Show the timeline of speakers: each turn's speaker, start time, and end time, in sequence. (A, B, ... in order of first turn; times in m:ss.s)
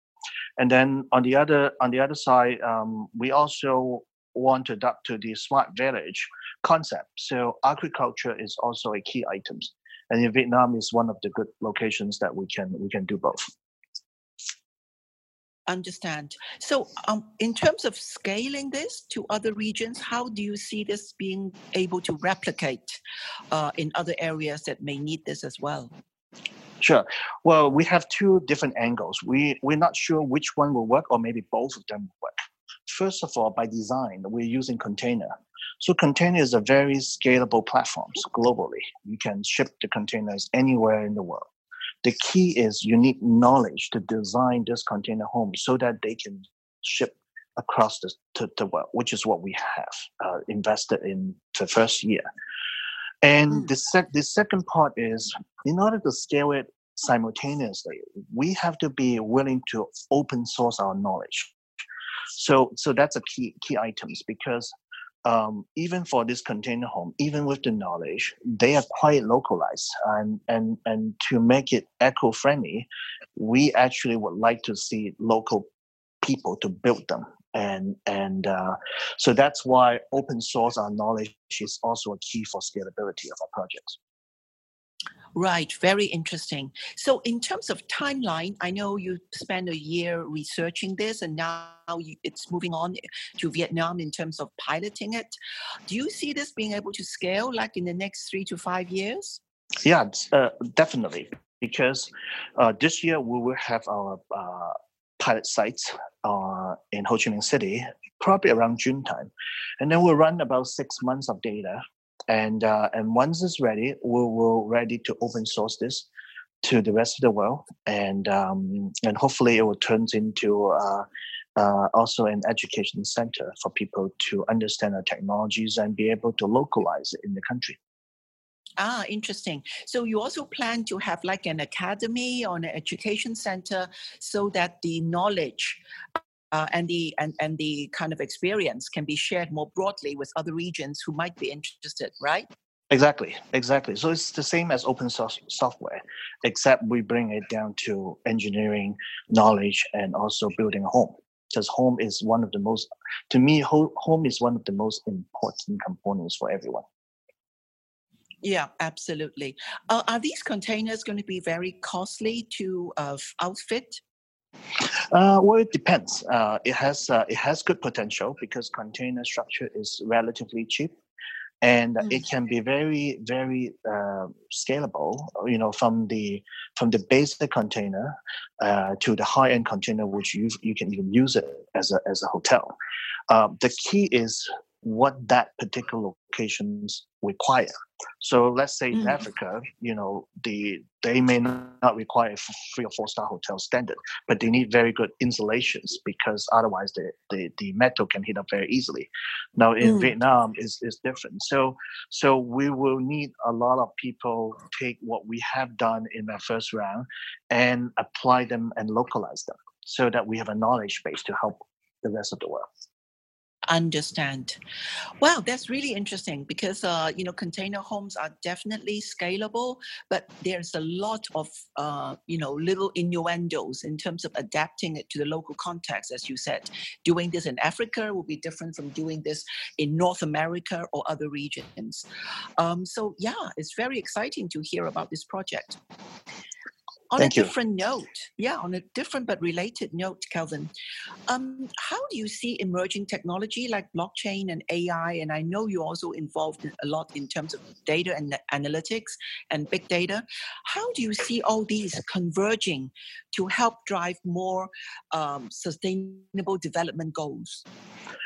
0:00.6-0:13.4 A
0:15.7-0:23.0 B
0:23.5-0:25.9 B
0:26.8-0:41.5 A
0:42.0-0:52.2 A
0:53.2-1:01.5 A
1:02.4-1:04.7 A
1:05.2-1:15.7 A
1:16.2-1:24.0 A
1:25.3-1:35.3 B
1:35.9-1:39.4 B
1:39.8-1:56.1 A
1:56.6-2:01.0 A
2:01.6-2:07.8 A
2:08.8-2:15.8 B
2:16.5-2:22.5 B
2:22.9-2:36.8 A
2:38.4-2:44.0 B
2:44.8-2:50.9 A
2:51.6-3:02.8 A
3:03.3-3:32.7 A
3:19.8-3:20.1 B
3:33.7-3:34.6 B
3:35.2-3:52.0 B
3:52.6-3:55.8 B
3:57.1-4:00.7 B
3:57.2-3:57.5 A
4:01.3-4:17.6 B